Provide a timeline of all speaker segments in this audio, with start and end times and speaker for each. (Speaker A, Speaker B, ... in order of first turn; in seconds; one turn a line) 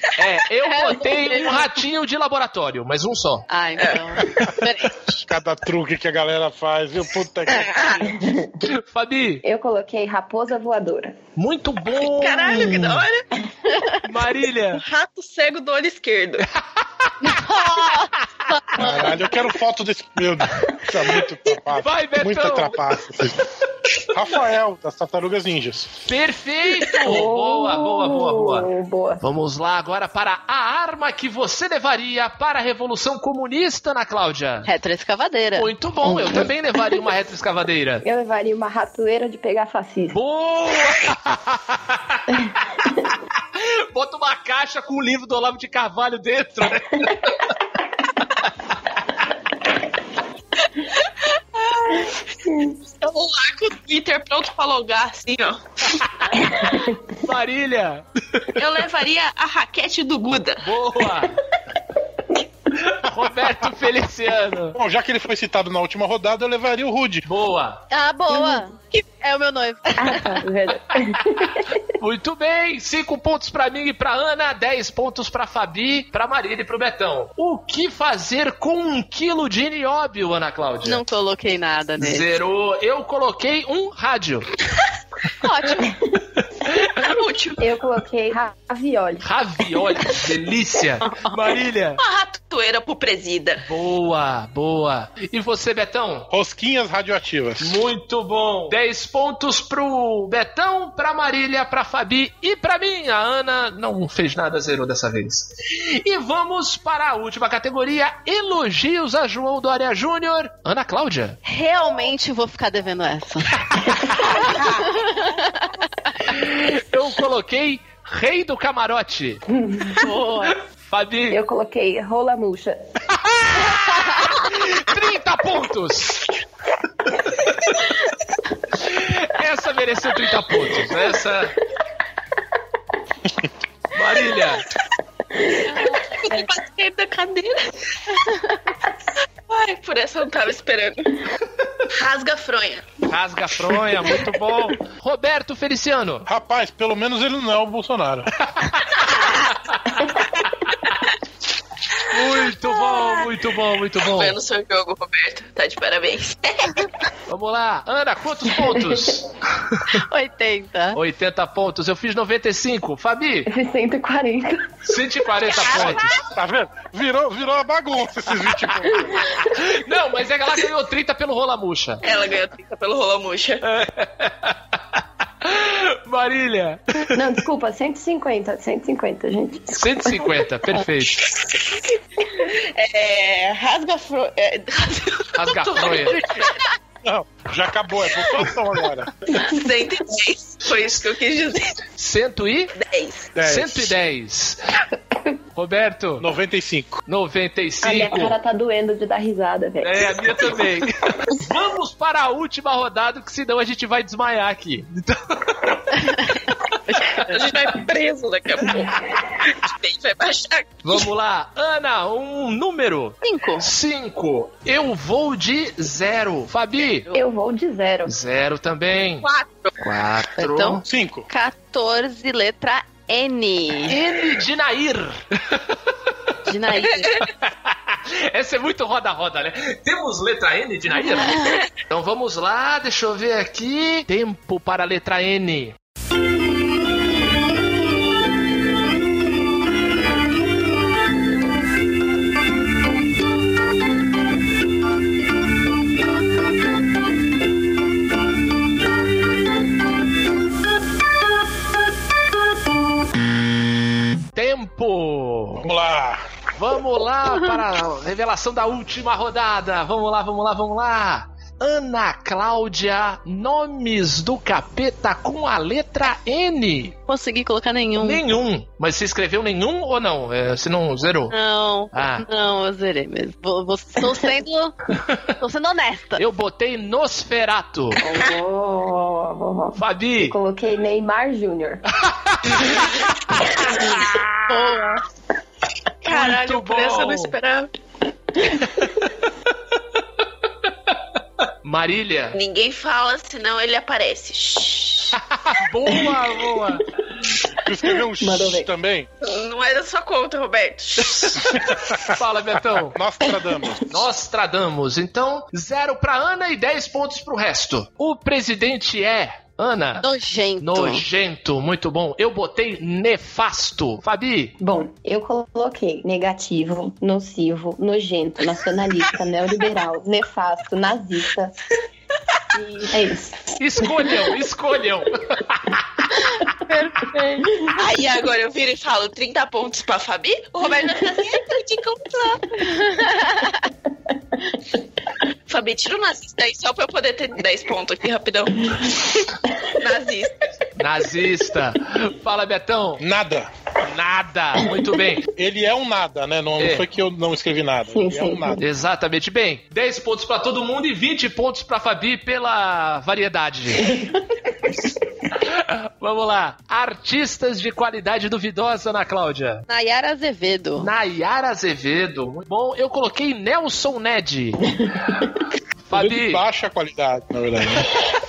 Speaker A: 0.2-3.5
Speaker B: 0.6-1.7
Speaker B: 3.5-5.2
Speaker C: 3.8-4.2
Speaker D: 5.2-7.9
Speaker C: 7.5-8.1
Speaker E: 8.1-8.5
Speaker A: 8.7-9.4
Speaker E: 9.4-11.2
Speaker A: 11.3-13.0
Speaker C: 12.0-13.2
Speaker B: 13.7-13.9
Speaker A: 14.0-14.8
Speaker C: 14.7-16.5
Speaker A: 16.6-18.0
Speaker B: 17.2-19.1
Speaker D: 18.8-26.0
Speaker A: 21.7-22.8
Speaker A: 26.1-34.7
Speaker E: 26.9-29.2
Speaker B: 34.6-36.5
Speaker A: 35.5-38.0
Speaker E: 38.0-40.1
Speaker A: 40.1-42.4
Speaker A: 43.3-47.5
Speaker A: 48.2-48.7
Speaker C: 50.9-52.2
Speaker E: 52.5-52.8
Speaker C: 53.0-55.9
Speaker A: 55.9-58.6
Speaker E: 56.6-57.0
Speaker C: 58.5-60.6
Speaker A: 60.6-61.4
Speaker A: 62.8-64.8
Speaker D: 64.7-67.2
Speaker A: 67.2-67.8
Speaker B: 67.9-70.4
Speaker E: 68.3-68.6
Speaker E: 70.0-71.7
Speaker A: 71.5-81.0
Speaker B: 80.8-82.2
Speaker A: 82.0-84.5
Speaker B: 85.4-85.9
Speaker A: 86.7-87.1
Speaker C: 87.0-87.7
Speaker E: 87.6-89.2
Speaker A: 89.2-92.0
Speaker B: 91.0-91.4
Speaker C: 92.0-93.6
Speaker A: 93.6-96.3
Speaker D: 96.3-97.8
Speaker A: 97.6-111.4
Speaker B: 111.4-113.6
Speaker A: 113.7-114.6
Speaker B: 114.2-116.1
Speaker A: 116.2-119.4
Speaker E: 119.5-120.0
Speaker B: 120.0-120.5
Speaker A: 120.8-121.4
Speaker E: 121.3-122.8
Speaker A: 123.2-126.3
Speaker B: 123.9-124.3
Speaker A: 127.2-127.9
Speaker A: 128.8-131.6
Speaker A: 133.9-134.6
Speaker C: 135.7-137.7
Speaker B: 138.1-138.7
Speaker C: 139.5-141.2
Speaker C: 141.9-142.9
Speaker A: 143.1-146.3
Speaker D: 146.3-148.3
Speaker A: 148.4-150.0
Speaker A: 152.1-154.3
Speaker C: 154.2-156.9
Speaker A: 157.3-159.9
Speaker B: 159.9-161.0
Speaker A: 160.9-163.5
Speaker E: 163.5-164.7
Speaker A: 164.8-166.2
Speaker D: 165.7-169.2
Speaker E: 169.1-169.4
Speaker A: 169.4-172.0
Speaker C: 172.0-173.6
Speaker A: 173.6-177.2
Speaker E: 177.1-180.3
Speaker A: 179.7-181.3
Speaker C: 182.3-186.6
Speaker A: 185.3-186.2
Speaker D: 187.0-189.1
Speaker C: 189.3-191.8
Speaker A: 192.0-192.7
Speaker C: 192.7-193.3
Speaker D: 193.3-193.9
Speaker A: 193.4-194.6
Speaker A: 195.5-196.3
Speaker D: 196.2-197.0
Speaker A: 197.1-198.3
Speaker E: 197.8-200.2
Speaker A: 199.8-207.3
Speaker B: 206.9-207.3
Speaker C: 207.2-211.0
Speaker A: 210.8-217.1
Speaker B: 213.2-213.7
Speaker E: 217.1-218.1
Speaker A: 218.1-219.2
Speaker C: 219.2-219.7
Speaker A: 219.8-220.8
Speaker B: 220.3-224.0
Speaker D: 220.8-221.3
Speaker A: 223.9-225.9
Speaker B: 226.4-227.2
Speaker A: 227.2-235.8
Speaker B: 231.2-231.6
Speaker A: 254.3-255.7
Speaker D: 255.6-256.2
Speaker A: 256.6-266.9
Speaker B: 267.1-268.2
Speaker A: 268.0-271.3
Speaker B: 271.3-274.7
Speaker A: 271.9-272.2
Speaker A: 275.0-275.3
Speaker B: 275.4-276.2
Speaker A: 276.2-278.0
Speaker E: 278.0-281.8
Speaker A: 279.7-280.4
Speaker A: 282.0-284.5
Speaker B: 284.5-285.0
Speaker C: 286.0-287.7
Speaker A: 286.1-287.3
Speaker A: 288.6-288.9
Speaker A: 291.6-292.4
Speaker C: 292.3-295.1
Speaker A: 295.1-296.9
Speaker D: 297.6-299.1
Speaker E: 298.2-298.7
Speaker C: 299.2-301.5
Speaker A: 301.0-302.9
Speaker D: 301.7-302.0
Speaker D: 302.7-303.9
Speaker A: 303.9-310.1
Speaker B: 310.0-311.0
Speaker A: 310.6-314.6
Speaker E: 314.6-321.6
Speaker E: 322.5-324.2
Speaker A: 323.6-326.2
Speaker B: 326.7-327.5
Speaker C: 327.7-332.6
Speaker B: 332.6-333.6
Speaker C: 335.5-339.0
Speaker C: 339.7-340.4
Speaker A: 340.8-343.0
Speaker D: 343.0-343.5
Speaker A: 343.8-345.2
Speaker D: 345.4-348.6
Speaker A: 346.6-346.8
Speaker E: 347.9-348.6
Speaker A: 348.6-353.9
Speaker E: 353.8-354.1
Speaker A: 355.4-359.6
Speaker B: 359.7-360.9
Speaker A: 360.8-364.6
Speaker E: 364.7-365.4
Speaker A: 365.9-366.4
Speaker D: 365.9-368.0